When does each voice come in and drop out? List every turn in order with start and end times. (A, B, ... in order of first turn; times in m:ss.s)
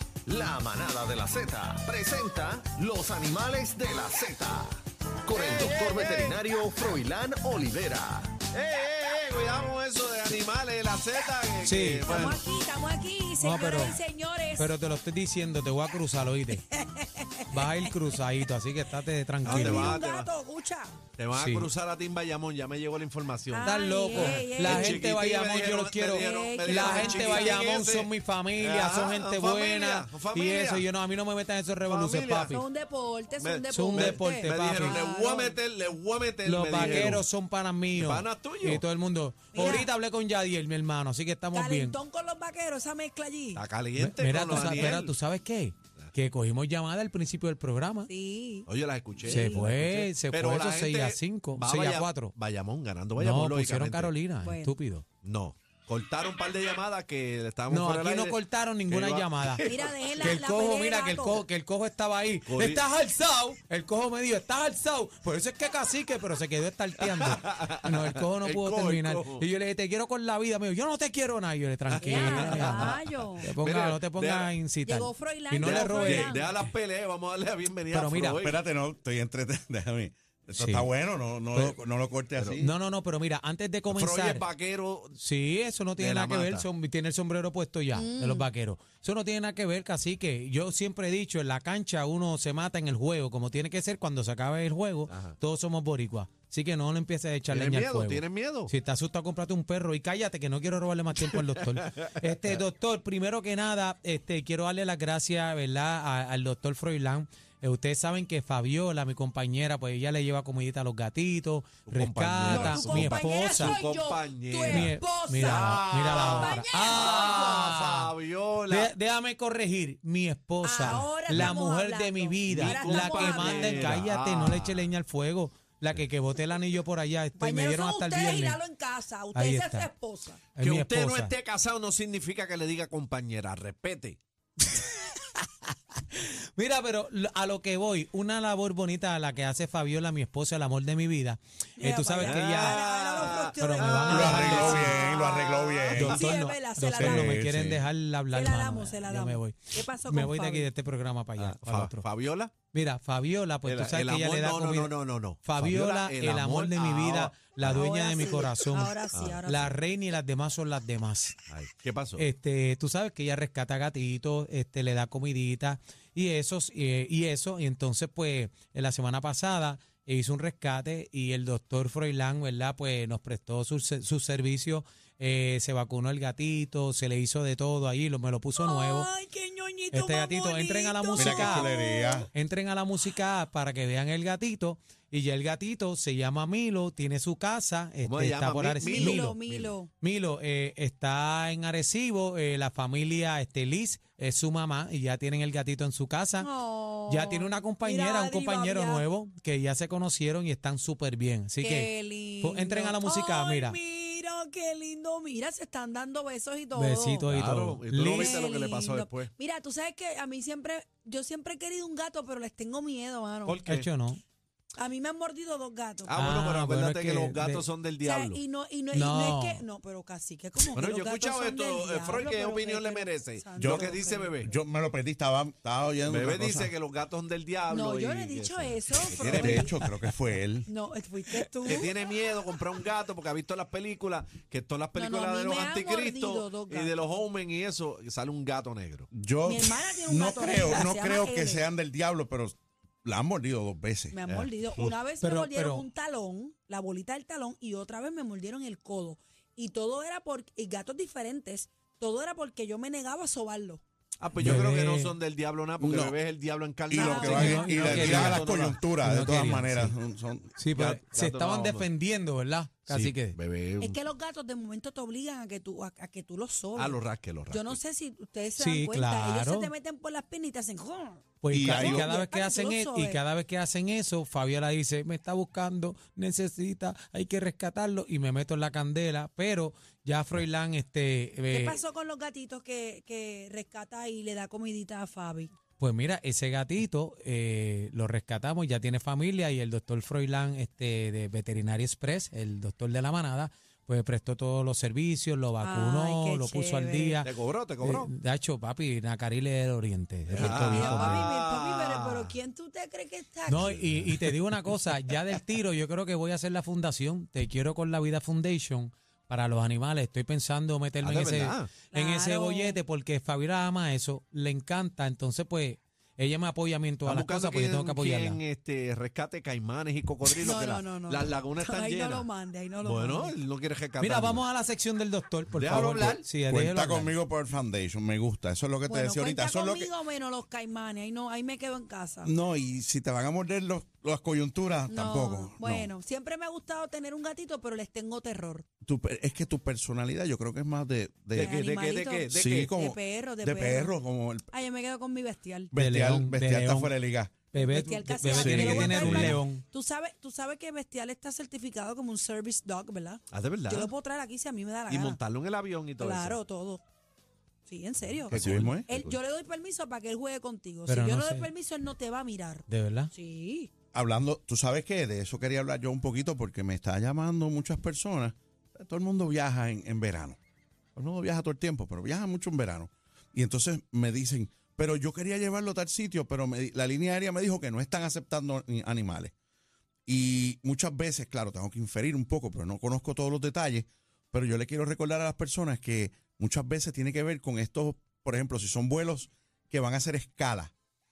0:00.3-0:08.4 A
0:05.3-0:06.4 B
0:08.5-0:12.4 B
0:11.6-0:12.4 C
0:12.1-0:14.7 D
0:13.4-0:14.0 C
0:14.6-0:16.6 C
0:16.7-0:17.9 D
0:17.5-0:20.0 C
0:19.4-0:20.3 B
0:19.5-0:21.0 D
0:21.2-0:30.9 B
0:21.3-0:21.7 C
0:23.5-0:25.0 D
0:23.6-0:32.6 C
0:26.1-0:27.7 D
0:31.9-0:32.6 B
0:32.5-0:35.6 D
0:33.4-0:37.2 B
0:33.7-0:35.0 C
0:36.4-0:42.0 C
0:36.8-0:37.1 D
0:38.0-0:38.8 B
0:39.5-0:39.9 D
0:41.5-0:43.6 D
0:43.6-0:45.1 B
0:44.0-0:48.1 C
0:44.6-0:44.9 D
0:48.1-0:48.7 D
0:48.7-0:54.1 B
0:49.2-0:49.7 D
0:49.2-0:52.3 C
0:53.2-0:55.1 C
0:54.4-0:54.7 D
0:55.2-1:00.3 B
0:57.7-1:16.6 C
0:59.6-1:01.4 D
1:02.4-1:02.8 B
1:07.0-1:09.4 B
1:11.9-1:14.6 B
1:12.0-1:13.5 D
1:14.8-1:16.5 D
1:15.6-1:18.6 B
1:17.9-1:18.4 C
1:18.4-1:22.7 E
1:20.6-1:20.9 C
1:21.5-1:21.8 C
1:22.6-1:24.4 C
1:23.9-1:25.2 B
1:25.2-1:53.8 C
1:26.0-1:26.7 B
1:27.9-1:28.5 D
1:35.1-1:35.4 B
1:37.5-1:38.7 B
1:41.2-1:42.5 B
1:51.9-1:58.9 B
1:52.5-1:57.7 D
1:54.7-1:58.1 C
1:58.7-2:08.6 C
2:00.6-2:04.0 D
2:00.8-2:01.5 B
2:02.5-2:05.0 B
2:07.4-2:10.4 D
2:09.4-2:09.9 C
2:10.6-2:11.4 C
2:10.6-2:14.2 B
2:14.6-2:22.9 C
2:21.8-2:27.3 D
2:22.2-2:26.2 B
2:23.6-2:25.0 C
2:24.1-2:26.3 E
2:25.9-2:32.1 C
2:27.0-2:27.8 E
2:28.3-2:30.7 D
2:31.4-2:32.6 B
2:32.7-2:41.4 C
2:33.6-2:38.6 B
2:37.7-2:39.7 D
2:39.1-2:39.4 B
2:41.5-2:42.3 B
2:42.2-2:59.1 C
2:58.6-3:02.3 D
2:59.9-3:01.7 C
3:01.2-3:02.3 E
3:02.3-3:09.4 C
3:08.0-3:09.7 B
3:08.8-3:09.9 D
3:10.0-3:16.5 C
3:16.4-3:19.0 D
3:17.1-3:23.8 C
3:21.6-3:27.3 D
3:26.8-3:28.4 C
3:27.3-3:29.3 B
3:28.1-3:33.6 D
3:33.5-3:33.9 B
3:33.7-3:34.2 C
3:34.8-3:36.3 D
3:36.1-3:38.4 B
3:36.2-3:37.6 C
3:38.0-3:44.3 D
3:38.9-3:39.6 C
3:40.8-3:44.5 B
3:43.6-3:46.7 E
3:46.1-3:49.7 B
3:47.7-3:49.8 D
3:49.2-3:50.7 E
3:50.7-3:51.9 D
3:51.7-3:59.1 B
3:55.0-3:57.0 D
3:59.1-4:04.2 E
3:59.4-4:01.7 D
4:04.1-4:13.8 D
4:04.3-4:04.9 B
4:05.2-4:05.9 C
4:14.2-4:18.8 B
4:14.4-4:15.2 C
4:15.8-4:16.2 E
4:16.9-4:20.6 E
4:16.9-4:18.1 D
4:17.2-4:18.5 C
4:19.0-4:19.9 C
4:20.6-4:23.4 C
4:20.7-4:21.9 B
4:23.4-4:24.0 B
4:23.8-4:33.2 D
4:26.8-4:27.8 B
4:28.6-4:29.7 C
4:31.4-4:41.8 C
4:31.5-4:32.1 E
4:41.5-4:45.5 D
4:45.8-5:01.2 C
4:55.6-4:57.2 D
4:57.2-4:58.1 B
5:00.3-5:02.4 B
5:00.4-5:03.8 D
5:03.5-5:18.4 C
5:03.6-5:04.2 B
5:11.0-5:11.7 B
5:11.9-5:12.8 D
5:17.0-5:22.3 B
5:20.4-5:23.4 D
5:22.8-5:24.4 B
5:24.0-5:27.2 C
5:25.5-5:26.3 B
5:26.5-5:29.9 E
5:28.9-5:32.3 D
5:32.2-5:35.9 E
5:34.9-5:38.7 D
5:38.8-5:41.6 E
5:41.3-5:44.0 D
5:41.4-5:42.7 B
5:42.3-5:44.5 E
5:44.5-5:45.7 D
5:45.7-5:47.3 E
5:45.8-5:47.0 C
5:47.5-5:49.6 C
5:47.6-5:55.2 D
5:48.3-5:49.4 E
5:53.3-5:53.9 B
5:54.9-5:56.4 B
5:56.0-5:56.8 D
5:57.7-6:03.7 D
5:58.3-5:59.2 B
5:58.3-5:58.9 E
6:00.9-6:01.5 C
6:02.7-6:03.1 C
6:03.9-6:10.4 E
6:11.0-6:19.3 E
6:20.1-6:30.7 E